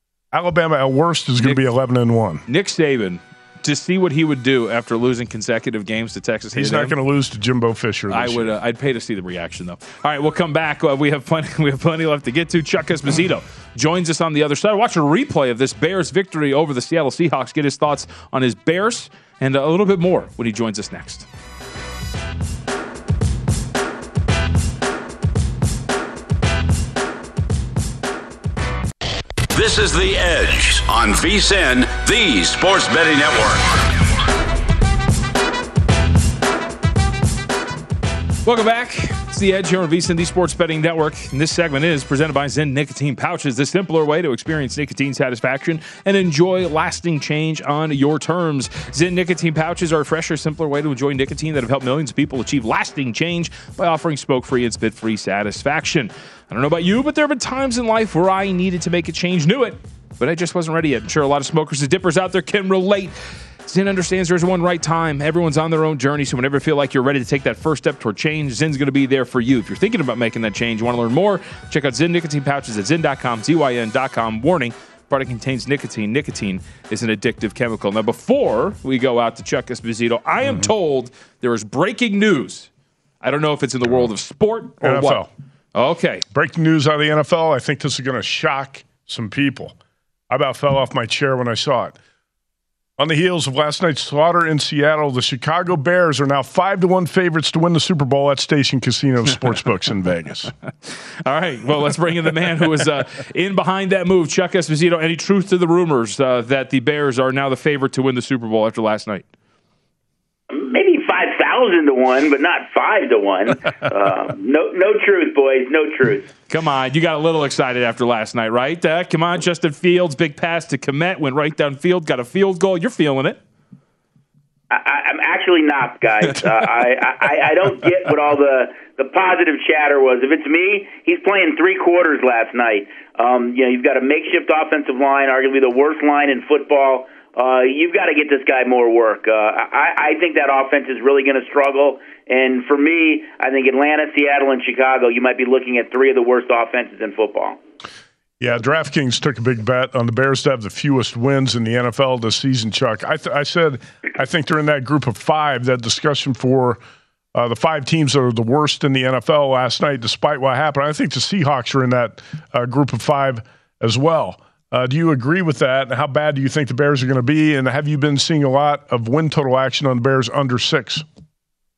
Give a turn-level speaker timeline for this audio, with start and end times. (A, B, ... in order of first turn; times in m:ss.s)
0:00.3-0:02.4 A
0:02.5-0:07.0 B
0:06.5-0:08.6 A
0:08.1-0:21.3 B
0:29.5-0:34.2 C
0:38.4-1:22.7 B
1:23.2-1:26.2 B
1:24.8-1:25.3 A
1:26.3-1:29.8 A
1:30.3-1:32.0 A
1:33.0-1:40.5 A
1:41.2-1:49.2 B
1:50.5-1:56.3 D
1:56.5-2:03.4 B
2:04.7-2:27.6 D
2:28.4-2:36.8 A
2:37.3-2:51.0 A